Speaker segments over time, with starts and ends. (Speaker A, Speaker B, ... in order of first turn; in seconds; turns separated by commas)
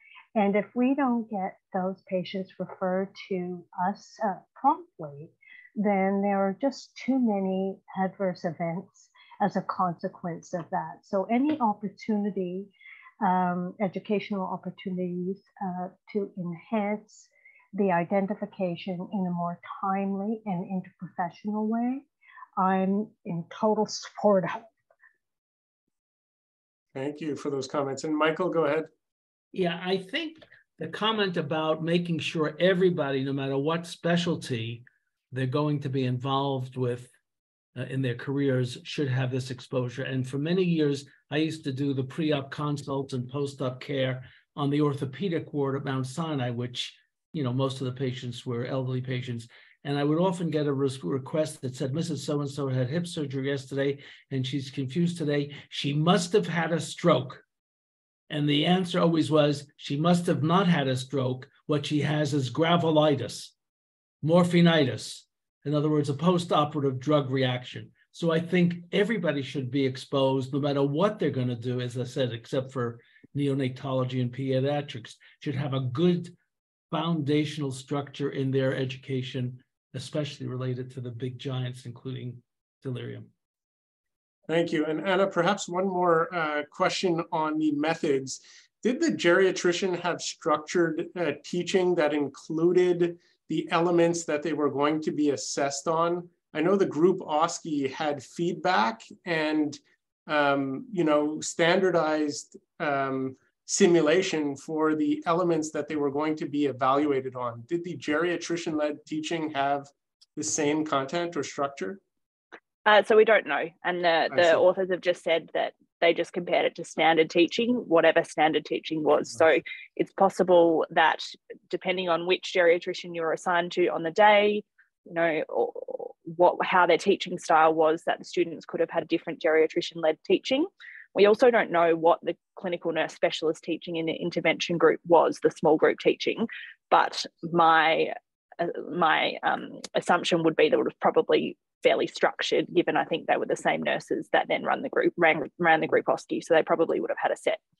Speaker A: 0.3-12.7, Speaker A: 13.2-22.1, Speaker A: 22.6-24.7, Speaker B: 26.9-28.9, Speaker C: 29.5-37.1, Speaker C: 37.8-57.4, Speaker C: 58.3-63.5, Speaker C: 64.2-76.3, Speaker C: 76.9-83.3, Speaker B: 84.5-112.0, Speaker D: 112.9-147.6, Speaker B: 114.3-114.6